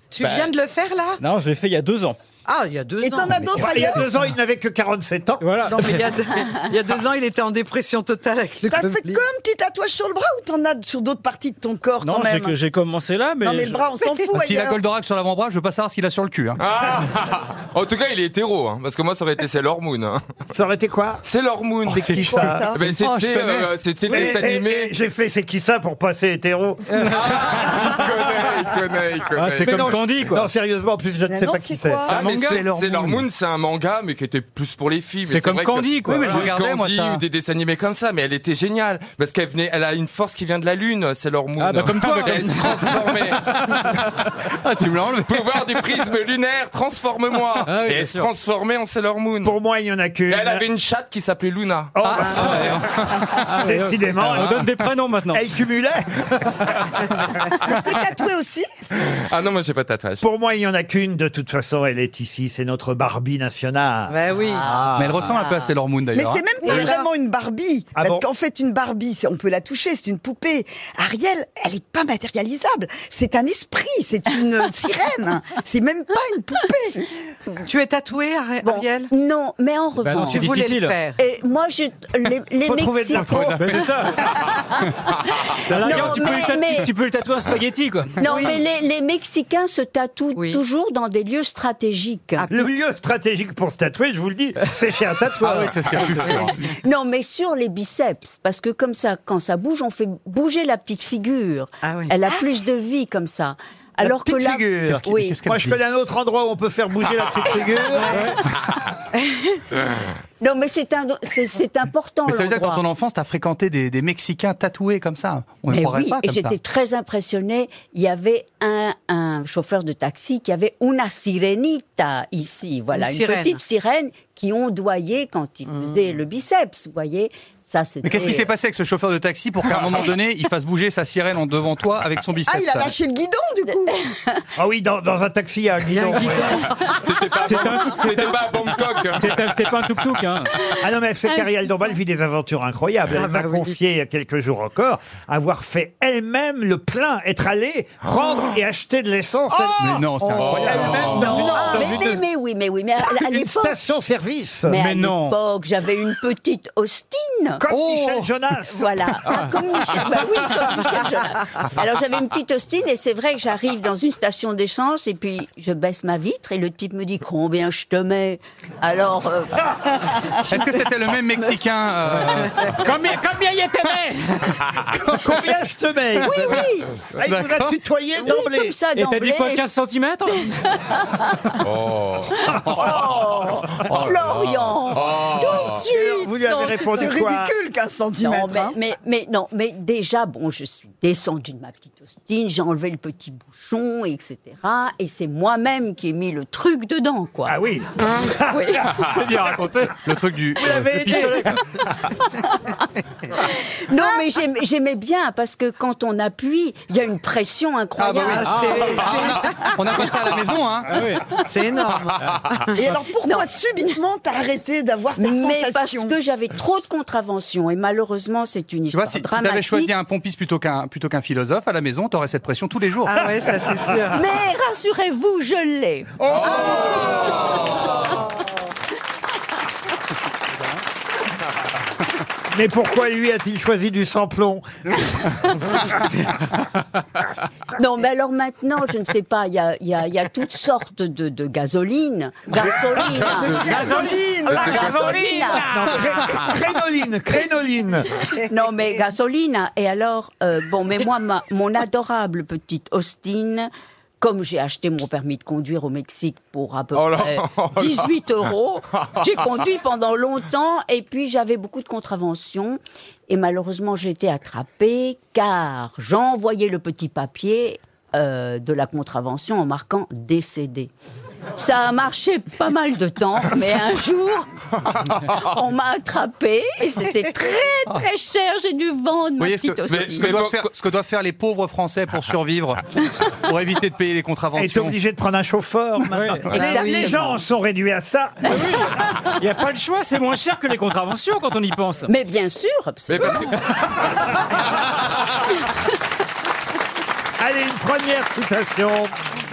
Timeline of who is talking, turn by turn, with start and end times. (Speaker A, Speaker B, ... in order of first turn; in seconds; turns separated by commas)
Speaker A: 0.1-1.2, Speaker B: 0.2-0.6, Speaker B: 1.2-2.2, Speaker A: 2.5-4.0, Speaker C: 3.0-4.1, Speaker D: 3.6-6.1, Speaker B: 5.4-6.2, Speaker A: 5.7-9.2, Speaker C: 8.6-12.6, Speaker B: 12.0-13.8, Speaker C: 13.4-14.8, Speaker A: 14.0-14.3, Speaker E: 14.3-16.6, Speaker F: 16.6-20.3, Speaker D: 20.5-21.2, Speaker F: 21.2-24.9, Speaker D: 21.9-22.7, Speaker E: 21.9-23.6, Speaker C: 22.1-22.8, Speaker B: 23.0-23.6, Speaker D: 24.1-27.6, Speaker B: 26.9-27.2, Speaker F: 27.1-30.0, Speaker B: 29.4-30.5, Speaker D: 29.6-32.1, Speaker C: 31.3-32.2, Speaker F: 32.1-43.6, Speaker B: 32.1-33.2, Speaker B: 35.3-36.5, Speaker E: 36.1-37.2, Speaker B: 41.6-43.2, Speaker E: 44.6-45.5, Speaker F: 45.2-49.5, Speaker B: 47.7-48.3, Speaker D: 49.4-50.6, Speaker F: 50.3-52.2, Speaker D: 52.0-54.7, Speaker B: 52.2-55.4, Speaker D: 55.3-57.1, Speaker C: 57.6-58.7, Speaker F: 59.0-60.2, Speaker D: 60.2-64.2, Speaker A: 64.1-64.7, Speaker G: 64.5-65.7, Speaker B: 64.6-65.3, Speaker E: 65.0-66.5, Speaker C: 66.2-77.1, Speaker G: 66.6-67.0, Speaker A: 66.7-67.0, Speaker D: 68.0-68.2, Speaker A: 77.7-79.1, Speaker G: 78.6-83.8, Speaker B: 80.0-81.0, Speaker A: 80.3-81.2, Speaker D: 82.6-84.0, Speaker B: 83.5-84.3, Speaker B: 85.6-88.4, Speaker G: 85.7-86.9, Speaker G: 88.2-92.5, Speaker A: 88.2-88.6, Speaker A: 90.3-90.6, Speaker A: 92.4-92.7, Speaker D: 92.5-96.4, Speaker B: 95.4-96.5, Speaker G: 96.8-105.4, Speaker A: 101.8-102.1, Speaker D: 104.0-108.4, Speaker E: 105.0-105.8, Speaker A: 107.9-108.3, Speaker B: 108.1-108.4, Speaker A: 109.2-109.6, Speaker G: 110.4-112.8, Speaker E: 112.3-116.5, Speaker G: 115.7-128.5, Speaker A: 122.9-123.6, Speaker A: 125.7-126.1, Speaker E: 128.0-132.9, Speaker C: 132.5-134.0, Speaker D: 134.6-136.7, Speaker A: 135.9-136.9, Speaker F: 136.9-139.5, Speaker B: 137.4-138.5, Speaker B: 139.1-140.5, Speaker D: 140.8-152.0, Speaker A: 143.1-143.8, Speaker E: 149.8-151.5, Speaker F: 150.4-150.7, Speaker G: 151.1-153.8, Speaker B: 151.3-152.1, Speaker C: 151.5-152.0, Speaker D: 153.1-154.8, Speaker G: 154.7-157.6, Speaker B: 154.7-155.4, Speaker D: 157.6-159.4, Speaker E: 157.7-158.3, Speaker G: 158.7-170.2, Speaker B: 159.3-159.5, Speaker E: 170.4-172.8, Speaker B: 172.3-174.6, Speaker D: 174.9-178.8, Speaker G: 176.2-176.9, Speaker E: 177.2-177.8, Speaker G: 178.2-179.6, Speaker B: 178.9-180.6, Speaker G: 180.4-181.5, Speaker F: 181.6-182.5, Speaker G: 182.5-187.1, Speaker F: 184.9-185.8, Speaker D: 185.7-187.6, Speaker C: 186.9-188.8, Speaker G: 188.2-197.6, Speaker D: 197.5-199.1, Speaker G: 198.5-198.9, Speaker B: 198.9-200.1, Speaker E: 200.0-201.3, Speaker D: 200.6-201.6, Speaker B: 200.7-201.6, Speaker G: 203.4-208.9, Speaker E: 208.0-211.0, Speaker A: 208.3-209.8, Speaker B: 208.4-209.2, Speaker B: 210.9-211.4, Speaker A: 211.3-212.9, Speaker C: 212.7-216.1, Speaker G: 213.2-213.5, Speaker G: 215.2-219.9, Speaker E: 218.9-223.3, Speaker A: 223.1-224.2, Speaker G: 224.1-227.3, Speaker F: 226.2-227.6, Speaker D: 232.5-234.7, Speaker G: 237.8-246.0, Speaker F: 243.0-245.4, Speaker C: 243.2-245.1, Speaker D: 245.0-248.2, Speaker B: 245.1-246.5, Speaker G: 248.5-253.7, Speaker G: 254.2-270.9, Speaker F: 256.9-258.1, Speaker G: 271.6-274.5, Speaker F: 274.9-275.4, Speaker G: 275.3-280.4, Speaker E: 279.4-285.0, Speaker F: 279.9-280.6, Speaker D: 284.6-288.6, Speaker B: 286.1-286.5, Speaker G: 286.5-287.4, Speaker A: 286.6-287.2, Speaker B: 288.4-292.1, Speaker G: 292.1-293.5, Speaker F: 293.1-293.9, Speaker D: 297.4-299.1